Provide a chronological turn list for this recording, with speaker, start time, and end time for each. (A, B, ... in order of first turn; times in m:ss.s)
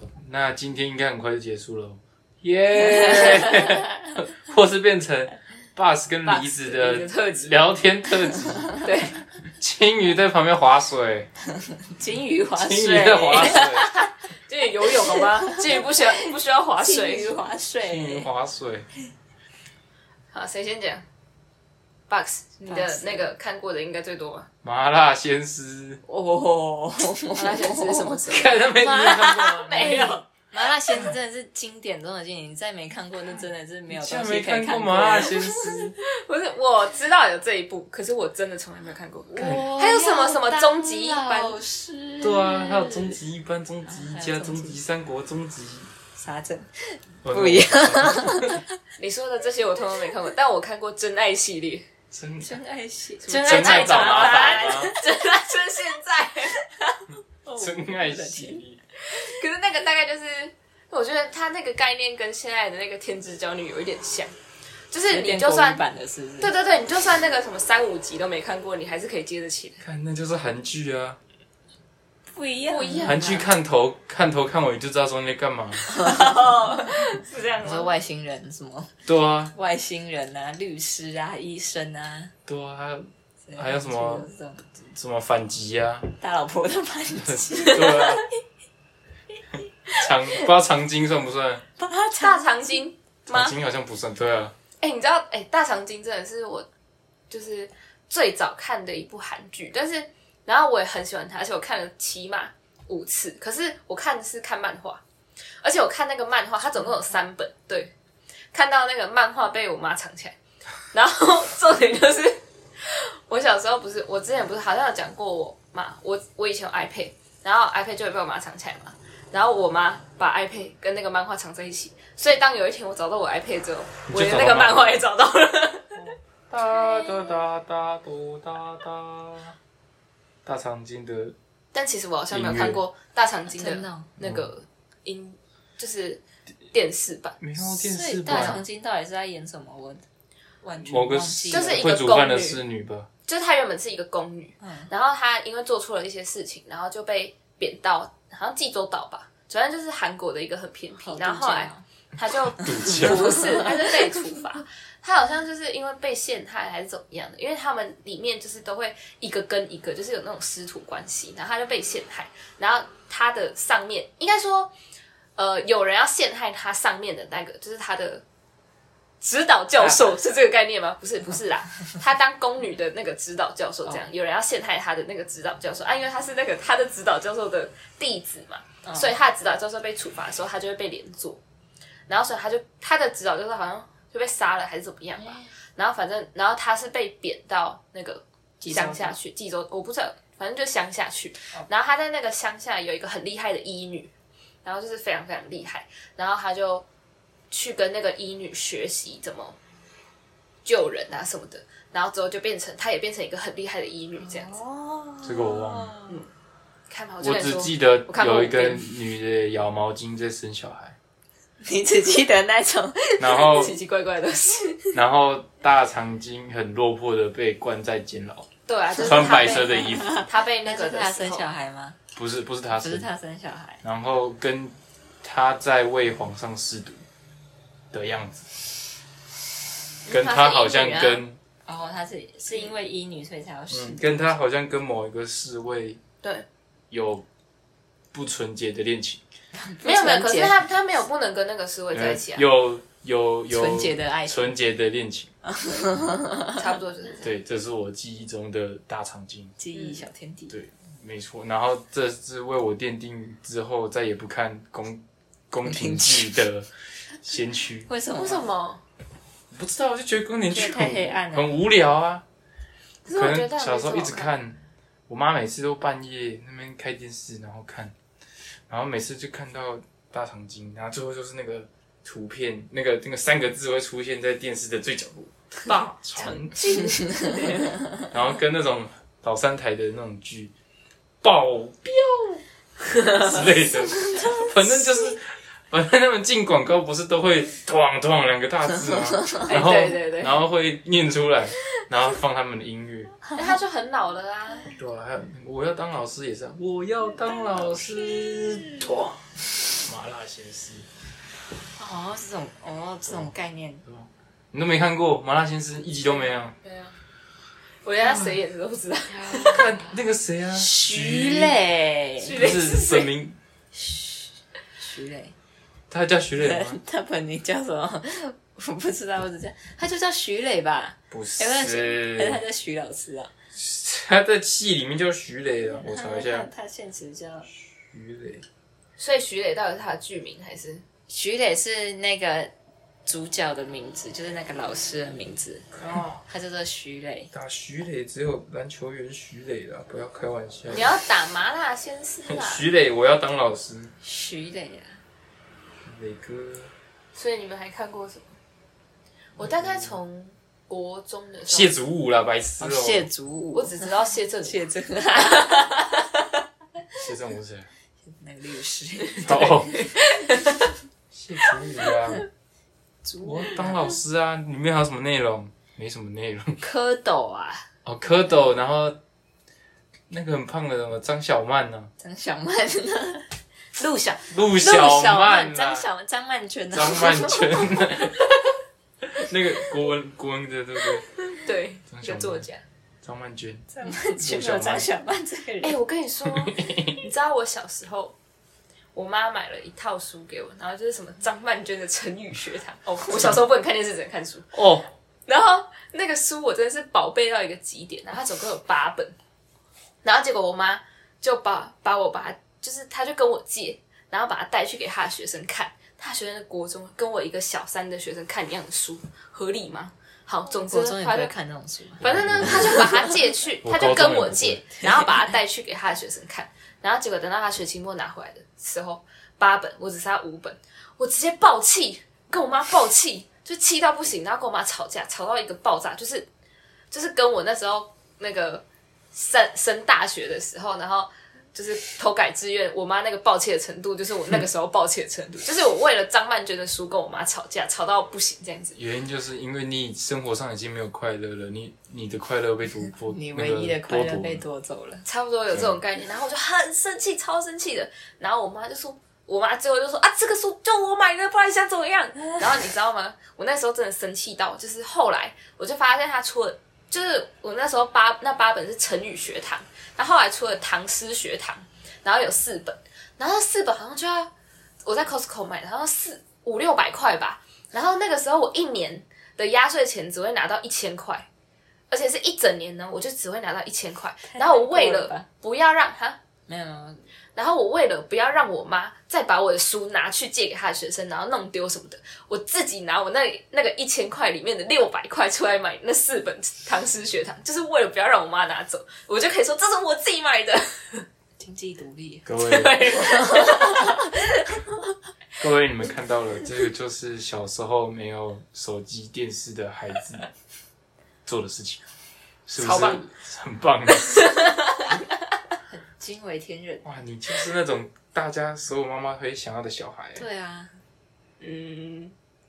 0:00.2-0:08.8 A
0:03.4-0:03.6 B
0:06.3-0:07.6 C
0:08.8-0:09.2 C
0:09.6-0:11.3 A
0:11.8-0:14.1 B
0:12.6-0:13.9 A
0:14.5-0:17.4 C
0:14.8-0:18.3 B
0:17.8-0:18.9 A
0:20.3-0:21.0 C
0:22.1-0:24.5 C
0:22.7-0:23.3 B
0:24.6-0:26.0 A
0:26.1-0:35.7 B
0:27.4-0:28.7 C
0:28.3-0:30.2 A
0:29.5-0:30.2 C
0:33.9-0:36.0 A
0:36.1-0:41.6 C
0:39.3-0:43.2 B
0:39.4-0:39.7 A
0:42.2-0:45.9 A
0:43.9-0:44.8 B
0:46.2-0:48.8 B
0:47.2-0:48.6 A
0:49.0-0:51.9 C
0:52.1-0:52.6 A
0:52.4-0:55.2 B
0:53.2-0:56.7 C
0:53.4-0:54.9 A
0:57.4-0:58.6 B
0:57.6-0:58.8 A
0:59.1-1:04.3 C
1:04.9-1:05.8 C
1:05.1-1:06.5 B
1:06.4-1:09.8 C
1:09.8-1:11.2 A
1:12.3-1:13.5 B
1:12.7-1:13.4 C
1:13.0-1:15.9 A
1:15.9-1:16.9 B
1:16.0-1:17.9 C
1:17.6-1:18.9 B
1:19.1-1:19.5 A
1:19.5-1:22.3 B
1:22.5-1:24.3 A
1:23.5-1:24.8 B
1:24.9-1:26.2 A
1:26.2-1:28.3 B
1:27.2-1:28.2 A
1:29.6-1:31.6 A
1:31.8-1:32.8 B
1:32.2-1:33.6 C
1:33.3-1:34.6 A
1:34.8-1:36.7 C
1:37.3-1:45.0 C
1:45.6-1:47.9 C
1:48.5-1:50.4 C
1:50.9-2:06.1 C
2:04.1-2:05.0 A
2:06.5-2:09.6 A
2:10.4-2:11.4 A
2:11.7-2:17.4 C
2:12.3-2:12.8 A
2:13.5-2:14.1 B
2:14.2-2:14.5 A
2:17.4-2:18.6 A
2:17.6-2:20.0 B
2:20.6-2:21.9 B
2:20.8-2:23.1 A
2:21.5-2:22.6 C
2:23.3-2:44.7 C
2:24.6-2:24.9 B
2:31.0-2:31.8 B
2:32.5-2:33.4 A
2:32.6-2:34.4 B
2:45.4-2:48.2 C
2:49.2-3:01.4 C
2:58.8-2:59.1 B
3:02.1-3:14.1 C
3:08.6-3:09.2 B
3:14.6-3:16.8 C
3:17.5-3:19.6 C
3:20.6-3:24.5 C
3:24.2-3:26.2 B
3:25.2-3:25.9 A
3:26.9-3:28.9 C
3:27.2-3:31.0 A
3:31.6-3:33.8 B
3:33.2-3:33.7 A
3:33.5-3:34.9 C
3:34.9-3:38.5 A
3:38.7-3:41.5 C
3:39.0-3:42.0 B
3:39.0-3:40.2 A
3:42.2-3:43.1 A
3:42.8-3:43.8 B
3:43.8-3:47.0 A
3:47.9-3:48.5 A
3:50.1-3:51.2 C
3:50.1-3:51.4 A
3:50.6-3:54.3 B
3:53.7-3:56.0 A
3:56.9-3:57.3 A
3:58.1-3:59.2 A
3:59.6-4:00.6 B
3:59.8-4:02.4 C
4:01.9-4:05.3 A
4:03.5-4:04.6 B
4:05.4-4:06.7 B
4:06.6-4:07.3 C
4:07.2-4:09.5 A
4:09.6-4:10.6 B
4:09.7-4:10.0 C
4:10.5-4:16.7 A
4:15.7-4:16.4 B
4:17.2-4:17.9 A
4:17.9-4:18.5 B
4:18.2-4:18.8 C
4:19.5-4:22.2 A
4:20.5-4:21.5 B
4:23.0-4:24.3 C
4:23.1-4:24.6 A
4:25.1-4:27.9 A
4:28.7-4:36.6 A
4:36.2-4:37.8 C
4:38.1-4:40.5 A
4:41.2-4:42.1 A
4:43.1-4:53.2 A
4:49.4-4:50.3 C
4:53.3-4:54.8 C
4:54.7-4:59.2 A
4:59.7-5:00.9 A
5:01.8-5:03.8 B
5:03.8-5:06.6 A
5:06.6-5:07.0 C
5:07.8-5:09.6 C
5:09.1-5:10.0 B
5:09.4-5:11.6 A
5:10.5-5:12.5 B
5:12.2-5:13.1 C
5:12.4-5:13.4 A
5:13.7-5:15.4 B
5:15.9-5:16.8 A
5:16.4-5:23.3 B
5:21.1-5:22.4 A
5:23.6-5:26.5 A
5:25.8-5:27.5 B
5:27.8-5:28.4 A
5:29.0-5:30.8 C
5:31.1-5:32.5 B
5:33.0-5:35.7 B
5:36.2-5:37.3 B
5:37.3-5:40.9 A
5:40.7-5:42.7 C
5:42.2-5:43.9 A
5:44.0-5:45.0 B
5:45.8-5:46.7 A
5:47.2-5:48.3 C
5:49.4-5:51.7 C
5:49.4-5:50.0 A
5:51.5-5:53.1 A
5:52.6-5:53.9 B
5:53.5-5:54.6 C
5:54.4-5:55.8 B
5:55.2-5:55.8 C
5:56.9-5:57.7 A
5:58.0-5:59.8 B
5:59.2-5:59.8 A
5:59.4-6:00.7 C
6:01.1-6:02.3 A
6:03.0-6:04.0 B
6:03.2-6:06.6 A
6:06.6-6:07.7 B
6:07.8-6:09.0 A
6:10.1-6:11.9 A
6:12.0-6:17.8 B
6:14.3-6:15.9 A
6:16.7-6:18.3 A
6:19.0-6:21.1 A
6:21.3-6:22.6 C
6:21.9-6:22.5 A
6:23.0-6:24.9 A
6:23.7-6:25.8 B
6:25.6-6:28.2 C
6:26.3-6:27.0 A
6:28.9-6:34.6 C
6:34.5-6:34.9 A
6:35.3-6:39.2 C
6:40.0-6:51.3 C
6:50.6-6:53.2 B
6:52.0-7:06.3 C
6:52.0-6:52.8 A
6:53.6-6:54.6 A
6:54.8-6:55.1 B
7:06.9-7:18.8 C
7:18.8-7:24.4 A
7:23.0-7:25.0 B
7:25.0-7:44.3 C
7:44.8-7:51.3 C
7:51.9-7:56.2 C
7:54.3-7:55.3 B
7:56.5-7:57.0 B
7:57.4-8:11.1 C
8:11.4-8:12.2 B
8:12.3-8:12.8 A
8:12.4-8:14.1 C
8:13.2-8:13.9 B
8:15.4-8:20.3 A
8:21.3-8:21.8 A
8:22.5-8:24.2 A
8:22.6-8:23.0 C
8:24.1-8:24.9 C
8:25.7-8:26.8 B
8:26.8-8:30.2 A
8:30.2-8:30.8 B
8:31.4-8:32.2 C